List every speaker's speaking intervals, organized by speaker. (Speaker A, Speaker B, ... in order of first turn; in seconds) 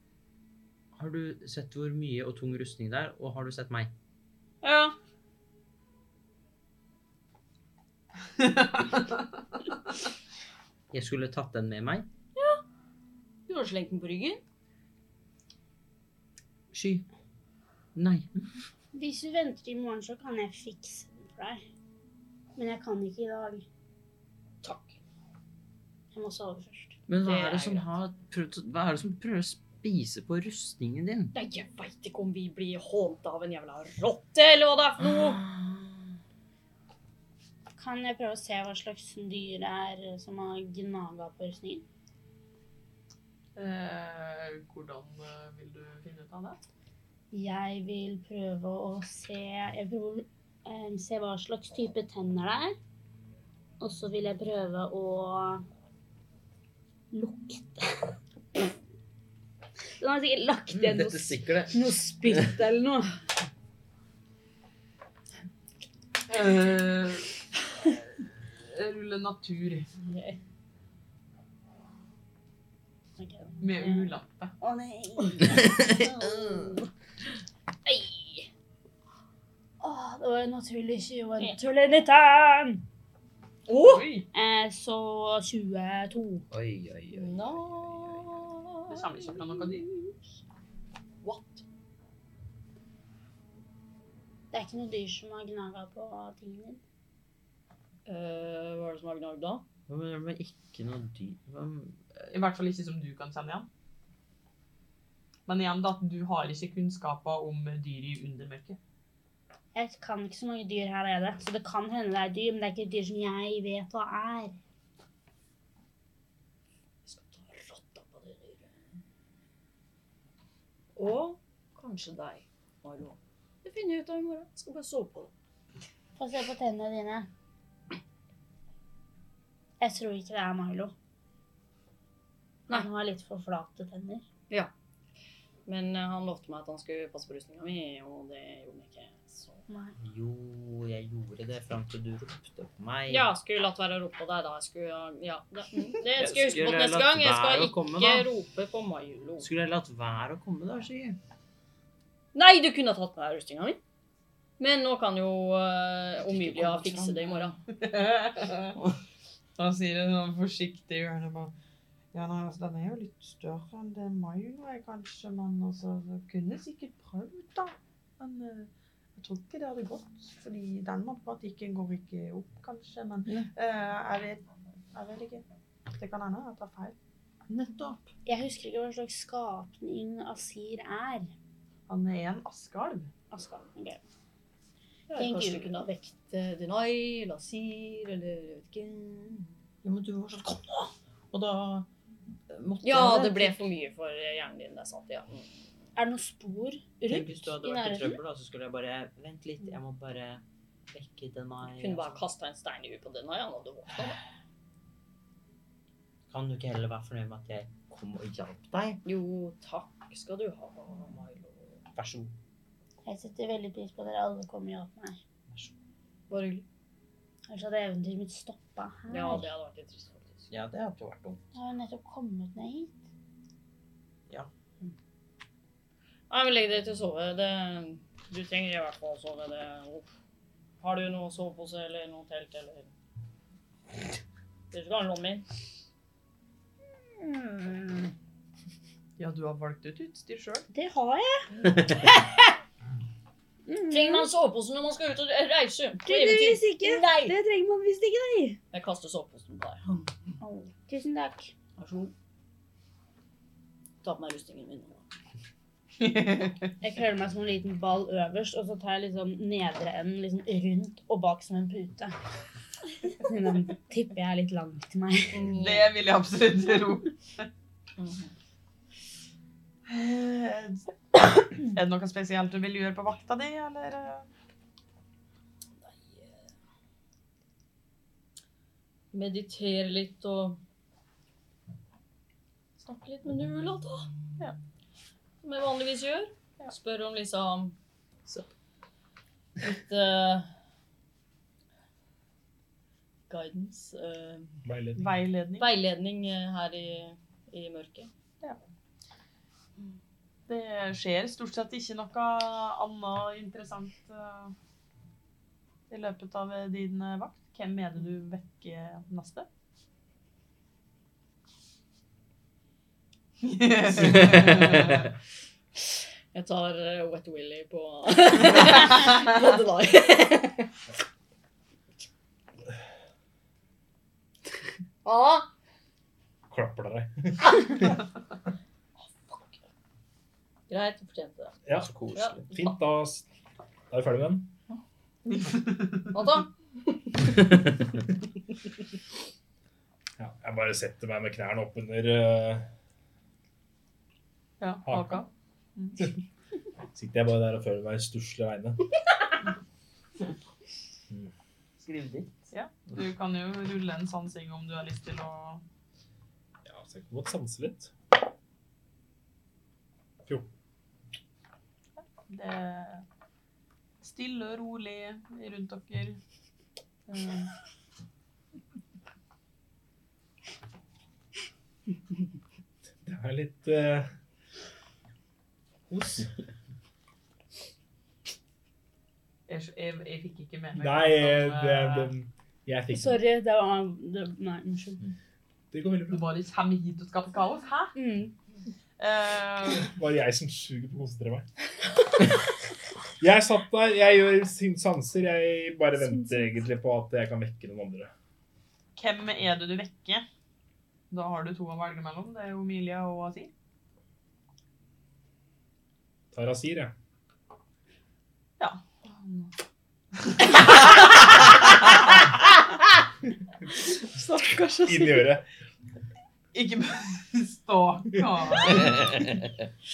Speaker A: 0.9-3.9, 10.9-12.1, 16.7-17.1, 17.9-18.5, 27.1-31.3, 35.0-35.9, 60.7-62.5, 75.5-76.7, 86.5-88.5, 99.9-102.3, 140.0-143.3, 146.2-148.3, 149.4-151.2, 156.2-157.5, 177.5-178.1, 189.8-191.9, 192.5-193.6, 197.1-202.2, 206.3-209.0, 212.0-212.3, 220.5-221.4, 314.1-314.7, 331.8-332.5, 351.8-352.4, 414.4-414.9
Speaker B: 4.6-5.0, 12.4-12.6, 13.5-14.4, 24.6-24.9, 27.2-27.9, 31.3-35.4, 83.7-84.1, 87.1-89.7, 91.2-91.6, 98.1-99.7, 117.0-118.7, 121.0-125.3, 135.7-139.6, 143.1-149.5, 152.3-153.8, 154.6-157.6, 185.1-189.5, 192.8-195.5, 201.7-204.2, 209.0-211.8, 216.3-216.7, 219.1-220.5, 226.3-230.1, 230.8-232.9, 234.7-235.5, 243.9-247.3, 248.7-250.1, 251.8-252.1, 254.0-255.0, 265.3-265.9, 268.0-268.3, 275.8-276.5, 279.1-280.6, 282.8-284.1, 285.4-287.8, 289.6-290.5, 293.3-294.5, 295.6-298.1, 316.3-320.7, 325.0-325.5, 329.3-329.6, 330.7-331.6, 332.1-332.7, 336.1-336.5
Speaker C: 8.4-9.2, 43.6-46.6, 66.3-67.3, 68.1-69.9, 73.6-74.5, 83.8-84.3, 88.9-89.8, 102.3-103.7, 105.5-108.8, 157.7-158.8, 159.6-161.5, 162.1-177.0, 181.9-183.1, 239.2-240.7, 256.0-256.7, 265.5-267.5, 269.9-270.9, 271.4-274.3, 295.0-295.7, 300.5-304.5, 305.9-309.5, 313.4-315.1, 335.3-336.1, 344.6-346.1, 352.5-355.6, 362.0-363.1, 364.0-366.2, 367.1-367.5, 379.5-382.1, 386.1-387.9, 389.0-389.9, 399.0-400.2, 401.1-403.5, 408.6-409.5, 410.2-412.0, 414.2-414.6, 416.5-419.0
Speaker D: 18.9-21.6, 22.6-23.7, 26.1-27.0, 37.8-41.9, 47.3-52.8, 53.8-55.6, 57.1-58.2, 60.0-63.1, 70.0-70.4, 73.2-74.1, 74.6-76.9, 79.8-82.8, 84.3-86.4, 94.5-96.8, 109.7-114.6, 126.2-127.3, 129.8-130.9, 132.7-134.2, 139.7-140.0, 178.3-181.3, 183.3-184.0, 185.1-186.1, 196.0-198.2, 213.1-215.2, 217.5-219.5, 221.5-223.0, 237.1-238.1, 240.7-241.5, 243.7-244.3, 246.1-248.6, 250.4-251.5, 256.8-262.1, 263.1-265.5, 382.9-385.0, 387.9-388.3
Speaker E: 294.6-295.0, 326.5-327.9, 331.7-331.9, 332.5-333.2, 333.9-334.5, 340.2-342.7, 344.9-345.2, 346.9-348.8, 356.6-357.9, 373.0-374.1, 375.9-376.2, 380.8-383.2, 385.7-386.2, 389.8-391.5, 393.2-398.1, 406.3-406.9, 414.9-415.4